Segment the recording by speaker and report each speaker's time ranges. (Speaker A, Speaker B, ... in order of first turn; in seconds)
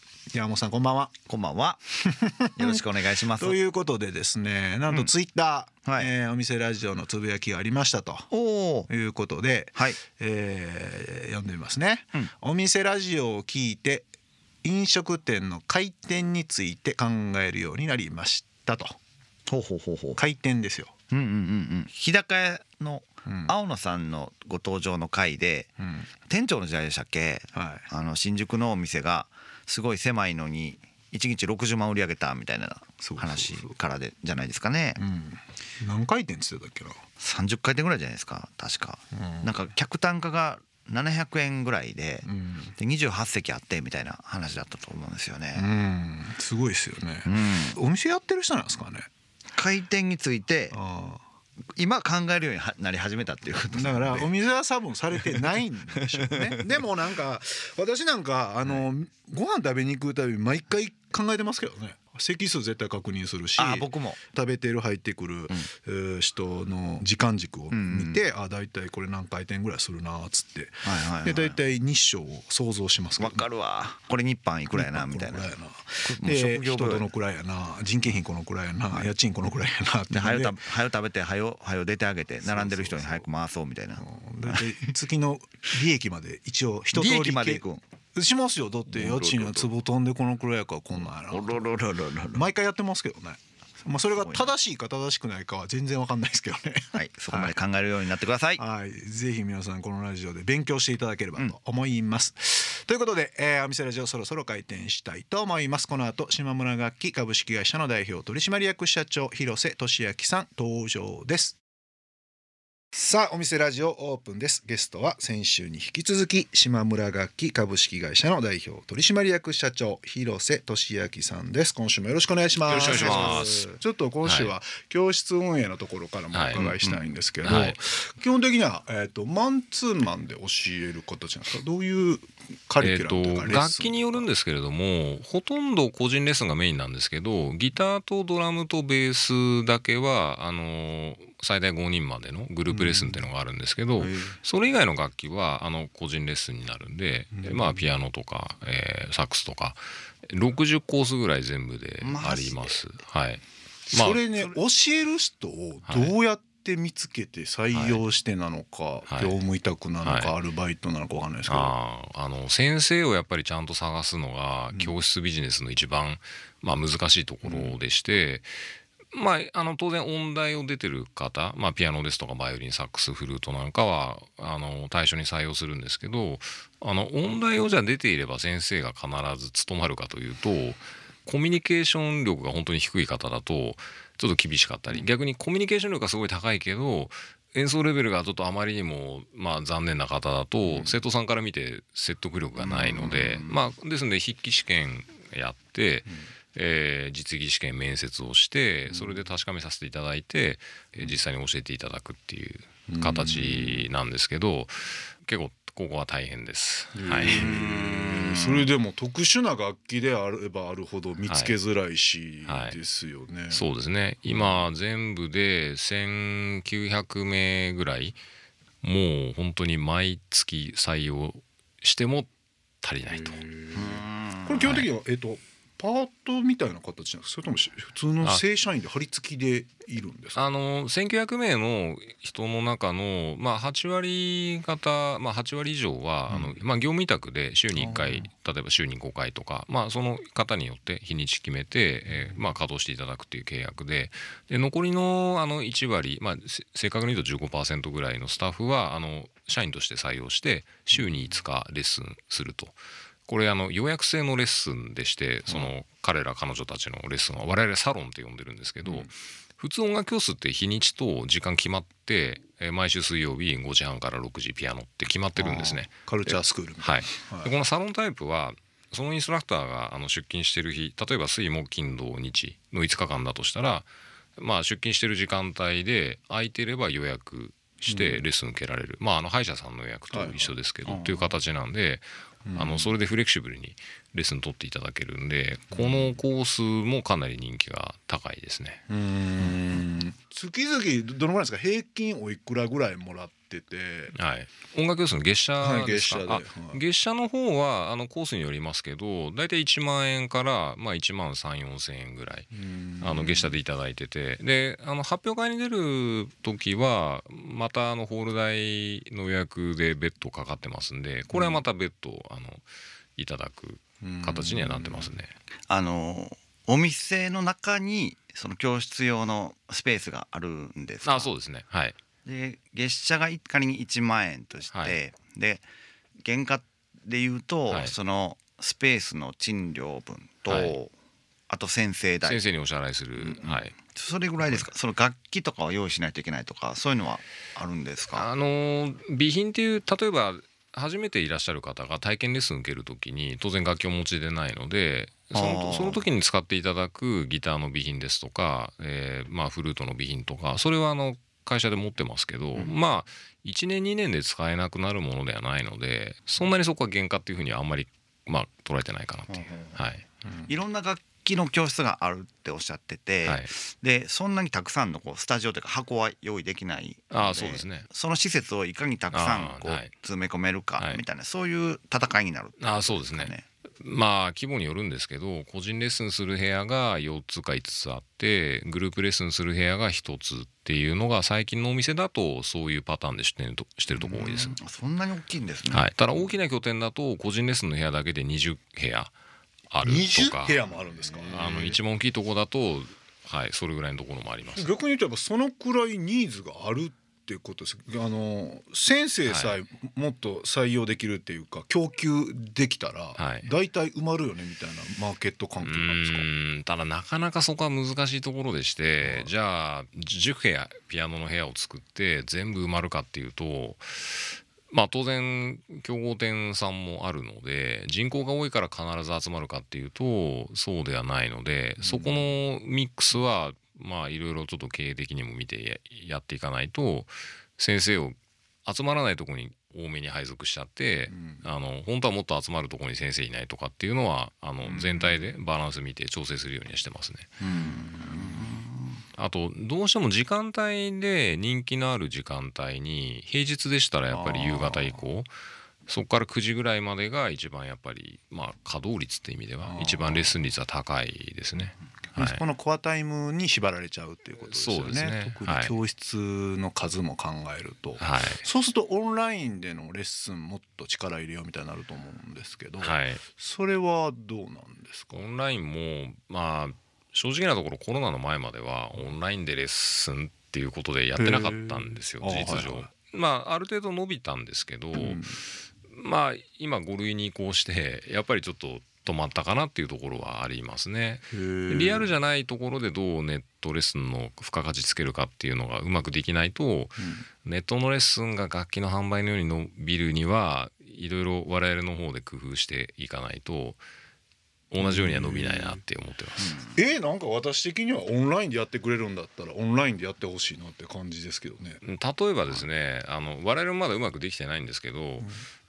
Speaker A: 0.3-1.1, 2.0-2.8, 3.3-8.3, 8.9-14.1, 14.6-19.0, 20.2-20.9, 23.2-23.5, 25.8-26.1, 27.5-27.9, 33.0-33.8, 35.0-37.0, 39.1-39.5, 42.2-42.8, 45.5-49.1, 50.7-51.2, 53.7-73.4, 74.7-80.6, 82.4-83.3, 84.0-91.6, 92.3-97.5, 98.6-111.6, 112.9-134.3, 142.7-143.3, 144.0-144.3, 147.3-147.8, 153.9-161.7, 167.4-167.8, 190.6-191.0, 198.9-199.3, 202.9-203.9, 206.9-213.7, 214.3-214.7, 223.1-230.4, 236.3-236.6, 237.7-238.3, 242.1-242.4, 250.9-251.4, 258.8-259.1, 265.4-267.5, 277.9-278.3, 280.1-280.5, 282.4-282.9, 285.7-286.2, 288.9-294.1, 295.6-296.8, 302.5-303.6, 311.3-311.6, 314.0-315.1, 389.8-391.8, 394.6-406.3, 409.0-409.3, 421.8-422.3, 431.1-431.4, 434.6-435.2, 437.4-438.6, 444.1-445.0, 449.6-450.4, 452.1-465.2, 471.2-472.9, 474.9-475.4, 481.3-482.1, 487.0-487.2, 494.8-495.8, 496.6-501.8, 505.2-505.4
Speaker B: 1.3-1.8, 2.5-3.6, 5.8-6.1, 8.3-8.9, 19.5-20.2, 21.1-25.7, 26.3-35.0, 37.2-42.2, 42.8-45.7, 47.2-47.8, 49.5-50.8, 51.8-54.3, 56.0-56.8, 63.6-64.2, 67.7-68.2, 70.8-71.6, 73.2-75.5, 76.0-77.0, 80.1-84.6, 86.9-87.8, 88.9-89.7, 91.2-92.5, 94.2-94.5, 97.0-98.6, 122.7-123.5, 152.0-152.8, 192.6-193.6, 207.2-208.7, 223.7-224.7, 280.8-281.4, 315.7-321.3, 322.2-325.6, 326.2-330.9, 331.5-332.4, 333.2-338.3, 345.3-346.0, 359.3-359.8, 360.5-373.4, 383.9-385.9, 437.5-439.0, 496.4-496.7
Speaker C: 122.7-123.7, 124.2-124.5, 126.3-126.8, 127.4-127.8, 132.8-154.2, 155.9-156.1, 157.7-158.0, 159.1-159.3, 160.0-160.3, 161.5-168.5, 169.1-207.5, 211.3-211.5, 212.4-212.8, 213.5-218.2, 218.8-222.3, 222.8-223.4, 230.3-288.8, 294.1-312.6, 313.2-315.3, 321.0-322.0, 324.7-325.0, 327.7-327.9, 330.5-330.8, 332.2-333.8, 334.4-334.7, 338.1-360.1, 363.2-363.5, 367.1-367.9, 369.1-369.9, 372.6-384.6, 385.7-389.1, 389.7-390.6, 391.2-394.7, 399.3-399.6, 403.1-403.5, 405.6-437.3, 439.1-445.3, 445.9-452.4, 454.5-455.8, 458.0-458.4, 462.8-463.2, 465.1-475.2, 475.9-493.8, 494.7-496.6, 501.8-505.3